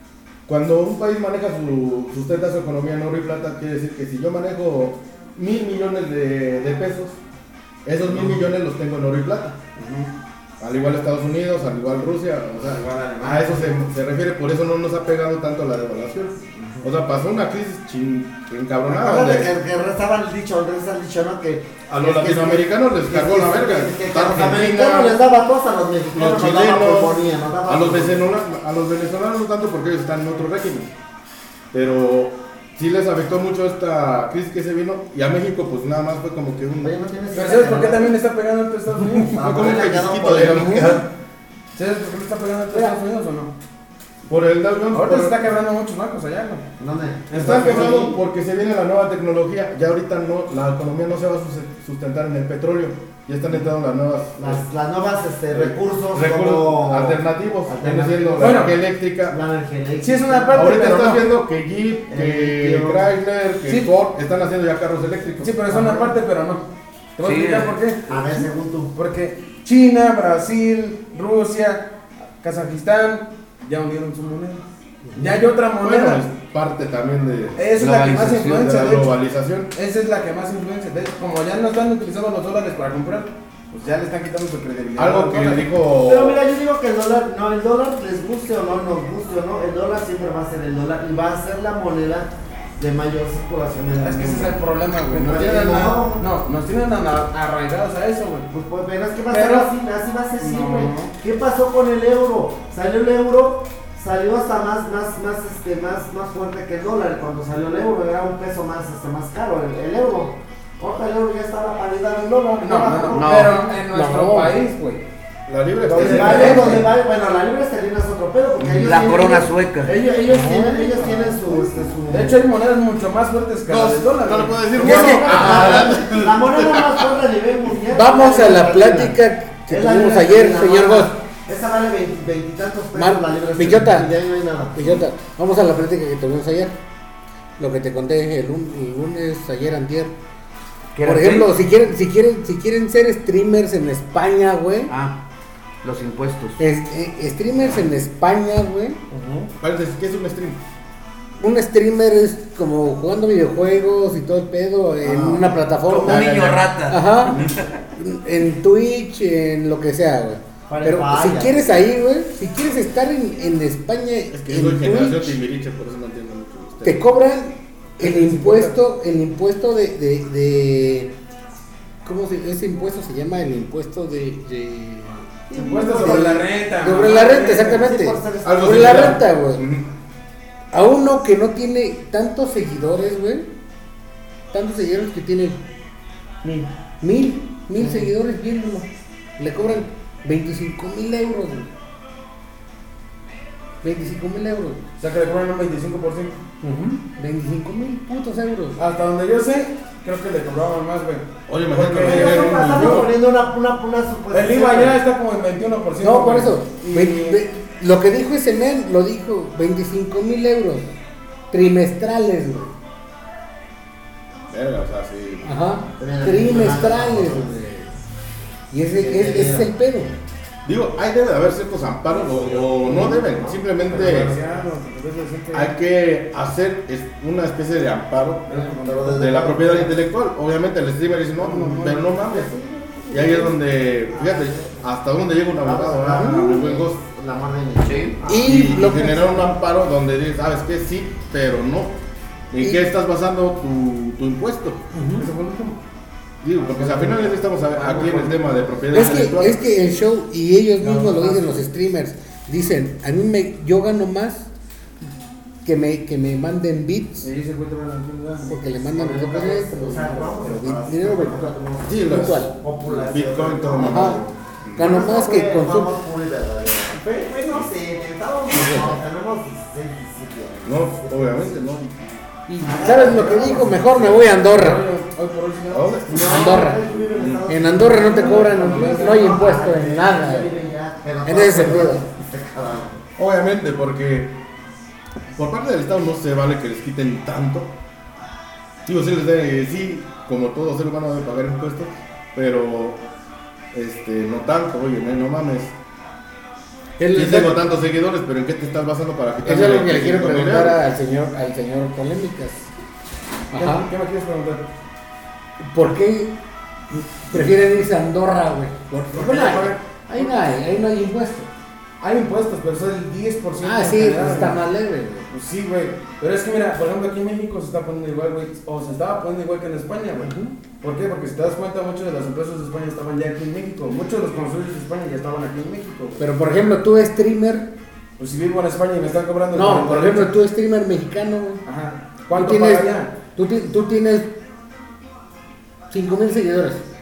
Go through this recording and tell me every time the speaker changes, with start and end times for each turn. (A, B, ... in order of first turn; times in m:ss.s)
0:00.5-0:07.2 A
0:07.8-0:09.6 A
0:08.1-0:08.4 B
0:09.8-0:10.1 B
0:10.6-0:19.5 A
0:12.9-0:13.6 C
0:18.9-0:28.3 C
0:21.9-0:25.2 A
0:26.1-0:30.9 A
0:31.7-0:36.9 A
0:36.8-0:38.2 C
0:37.3-0:39.7 B
0:39.3-0:41.0 C
0:39.4-0:41.0 A
0:41.8-0:43.5 B
0:44.3-0:45.4 A
0:44.9-0:46.6 B
0:46.8-0:48.2 C
0:47.3-0:48.0 B
0:47.3-0:54.6 A
0:54.4-0:58.8 C
0:55.5-0:59.4 A
0:58.4-0:58.7 B
0:59.3-1:01.0 C
1:00.0-1:01.2 B
1:00.5-1:05.7 A
1:02.1-1:03.1 C
1:03.7-1:03.9 B
1:05.4-1:06.6 B
1:05.7-1:06.2 C
1:07.2-1:08.0 B
1:07.2-1:07.7 D
1:08.1-1:08.9 C
1:08.9-1:11.9 B
1:12.4-1:14.6 B
1:15.2-1:16.2 B
1:15.8-1:17.7 A
1:17.6-1:19.1 B
1:17.8-1:18.8 D
1:18.5-1:19.7 A
1:19.7-1:25.7 B
1:25.0-1:26.4 A
1:26.0-1:36.2 C
1:34.0-1:38.5 B
1:38.5-1:53.5 C
1:39.3-1:39.7 B
1:40.4-1:41.1 B
1:52.6-1:55.0 B
1:53.1-1:53.6 D
1:53.6-1:54.6 E
1:55.5-1:56.8 A
1:55.9-2:02.4 C
1:56.0-1:56.9 B
1:58.7-2:00.0 D
2:00.3-2:01.7 E
2:02.1-2:05.4 B
2:03.7-2:07.2 A
2:04.8-2:09.2 C
2:04.8-2:06.0 E
2:07.9-2:11.1 E
2:09.7-2:15.0 C
2:12.9-2:14.1 E
2:14.7-2:16.8 E
2:17.6-2:20.1 E
2:21.0-2:21.5 D
2:21.0-2:24.9 E
2:24.9-2:25.2 D
2:25.8-2:26.6 D
2:26.6-2:29.0 E
2:29.1-2:29.5 C
2:29.6-2:30.6 A
2:31.4-2:36.3 E
2:35.0-2:35.6 C
2:35.9-2:37.7 D
2:36.0-2:36.7 A
2:36.9-2:45.4 E
2:40.7-2:41.8 C
2:44.3-2:47.1 A
2:46.8-2:51.1 E
2:48.0-2:48.8 B
2:52.0-2:55.3 E
2:55.5-2:56.5 C
2:55.5-2:57.8 B
2:55.8-2:59.6 E
2:57.1-2:59.2 C
2:58.4-2:59.9 A
3:00.7-3:03.5 E
3:04.5-3:05.6 E
3:06.4-3:06.7 C
3:07.0-3:08.9 E
3:07.8-3:08.1 C
3:09.4-3:11.7 E
3:13.8-3:14.8 E
3:15.0-3:17.0 B
3:17.0-3:18.8 E
3:18.8-3:23.1 B
3:21.5-3:23.1 A
3:22.0-3:25.0 C
3:24.3-3:27.4 B
3:26.0-3:30.9 E
3:31.5-3:32.7 E
3:34.5-3:35.5 A
3:35.4-3:37.9 E
3:36.0-3:37.6 C
3:38.7-3:40.1 E
3:39.0-3:39.7 C
3:40.7-3:44.3 A
3:42.1-3:44.6 C
3:43.9-3:45.7 B
3:45.5-3:48.5 A
3:48.5-3:49.3 B
3:48.6-3:50.0 C
3:49.1-3:52.5 A
3:51.4-3:52.1 B
3:52.2-3:54.8 C
3:53.1-3:57.0 A
3:55.6-3:58.7 C
3:56.1-3:56.6 E
3:57.8-3:58.2 D
3:58.2-3:59.5 E
3:58.4-4:02.0 A
4:02.5-4:04.8 A
4:02.6-4:02.9 E
4:04.9-4:05.3 E
4:05.2-4:05.8 B
4:06.4-4:09.7 A
4:06.7-4:08.4 B
4:08.9-4:14.5 E
4:10.8-4:11.6 B
4:15.6-4:17.3 E
4:17.2-4:18.6 B
4:18.4-4:22.5 E
4:18.9-4:31.6 C
4:21.8-4:25.0 A
4:23.8-4:24.2 E
4:24.8-4:25.9 E
4:28.5-4:29.0 E
4:30.6-4:32.1 A
4:32.5-4:34.8 E
4:32.6-4:34.0 C
4:33.0-4:36.5 B
4:35.7-4:36.3 A
4:36.1-4:43.0 C
4:36.2-4:36.8 E
4:37.4-4:40.5 E
4:37.8-4:39.4 B
4:41.2-4:42.0 E
4:43.2-4:44.4 A
4:45.4-4:47.7 A
4:48.9-4:53.0 A
4:53.7-4:55.7 A
4:57.0-4:57.6 E
4:57.1-5:00.8 A
4:59.4-5:02.7 E
5:03.5-5:03.9 E
5:03.5-5:04.6 B
5:05.6-5:06.4 E
5:06.9-5:11.5 E
5:09.1-5:10.3 B
5:12.0-5:14.6 B
5:13.6-5:15.3 E
5:15.3-5:26.3 B
5:20.2-5:20.5 E
5:26.2-5:27.7 E
5:28.2-5:30.3 B
5:29.5-5:31.6 E
5:31.6-5:33.1 B
5:32.3-5:34.3 E
5:35.9-5:36.8 E